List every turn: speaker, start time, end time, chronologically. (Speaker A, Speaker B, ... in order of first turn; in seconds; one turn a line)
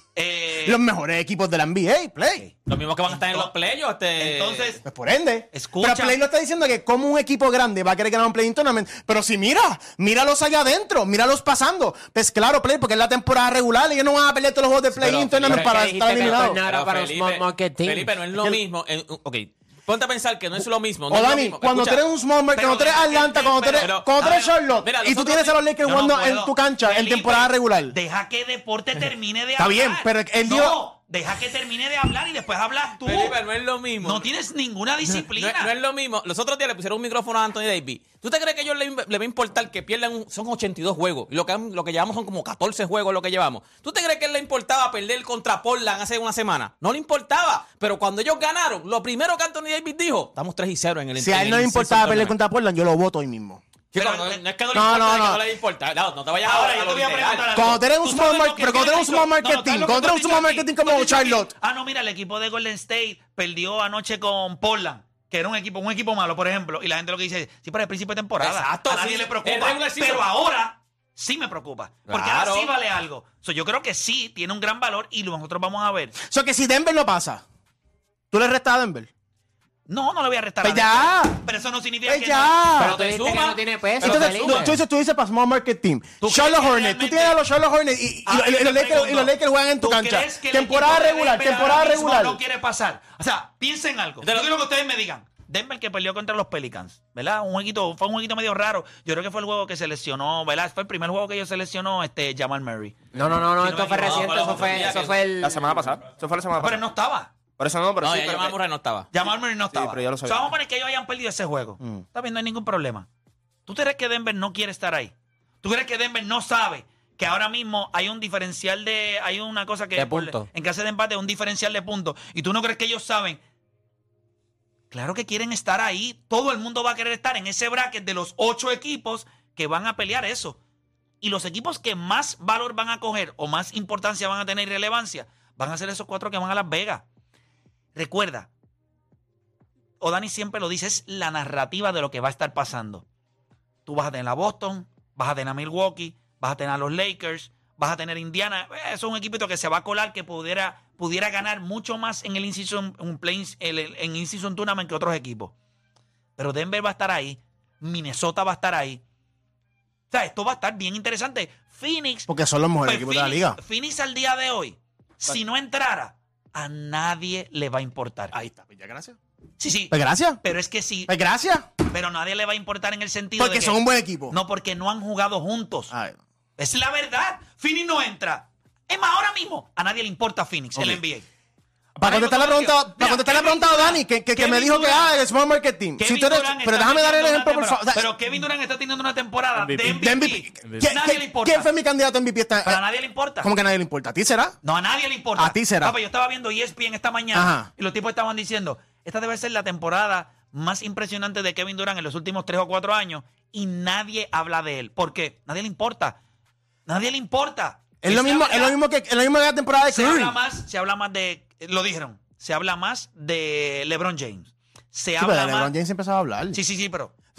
Speaker A: 0.1-0.8
Speaker B: 0.6-2.4
Speaker C: 2.6-4.8
Speaker A: 3.1-3.5
Speaker A: 4.2-4.8
Speaker B: 4.8-16.6
Speaker A: 5.5-6.2
Speaker C: 15.0-22.0
Speaker D: 15.0-18.2
Speaker B: 21.1-27.9
Speaker A: 22.5-24.6
Speaker C: 23.8-24.2
Speaker C: 24.8-25.6
Speaker A: 25.8-33.4
Speaker B: 29.6-30.8
Speaker C: 33.0-34.3
Speaker A: 34.0-35.7
Speaker C: 35.1-52.4
Speaker B: 51.2-53.6
Speaker C: 53.9-57.6
Speaker A: 53.9-54.4
Speaker B: 54.7-55.4
Speaker A: 56.4-76.1
Speaker B: 57.5-61.5
Speaker C: 68.4-70.3
Speaker C: 72.1-72.7
Speaker B: 76.2-77.4
Speaker B: 78.3-79.1
Speaker A: 79.9-82.7
Speaker B: 80.6-81.4
Speaker B: 82.0-83.0
Speaker D: 82.8-84.8
Speaker C: 82.8-84.6
Speaker B: 84.0-92.4
Speaker A: 86.2-87.4
Speaker A: 88.2-103.0
Speaker C: 94.2-94.5
Speaker D: 103.1-105.7
Speaker C: 103.6-105.3
Speaker A: 103.6-104.7
Speaker E: 105.4-106.8
Speaker A: 106.6-107.3
Speaker E: 107.6-108.6
Speaker C: 108.0-109.1
Speaker A: 109.1-113.1
Speaker E: 109.7-110.5
Speaker A: 113.7-123.4
Speaker D: 119.9-120.5
Speaker A: 124.9-130.6
Speaker A: 131.2-137.0
Speaker A: 137.9-138.5
Speaker A: 140.0-143.0
Speaker A: 143.8-155.5
Speaker A: 156.4-159.0
Speaker A: 160.1-162.3
Speaker B: 162.3-163.6
Speaker A: 162.8-168.3
Speaker B: 168.3-169.2
Speaker A: 169.6-171.1
Speaker B: 169.9-170.4
Speaker B: 171.1-171.7
Speaker A: 171.9-175.9
Speaker B: 173.4-174.4
Speaker B: 175.9-176.2
Speaker A: 176.6-181.2
Speaker B: 180.7-181.0
Speaker B: 181.9-188.1
Speaker A: 182.0-185.1
Speaker A: 186.0-191.7
Speaker E: 189.6-189.9
Speaker B: 189.8-192.8
Speaker A: 192.6-193.5
Speaker B: 193.4-194.6
Speaker A: 194.6-206.2
Speaker B: 195.4-195.9
Speaker B: 197.3-197.7
Speaker A: 206.9-208.8
Speaker B: 208.0-210.4
Speaker A: 209.9-215.7
Speaker B: 215.2-216.6
Speaker A: 216.5-217.1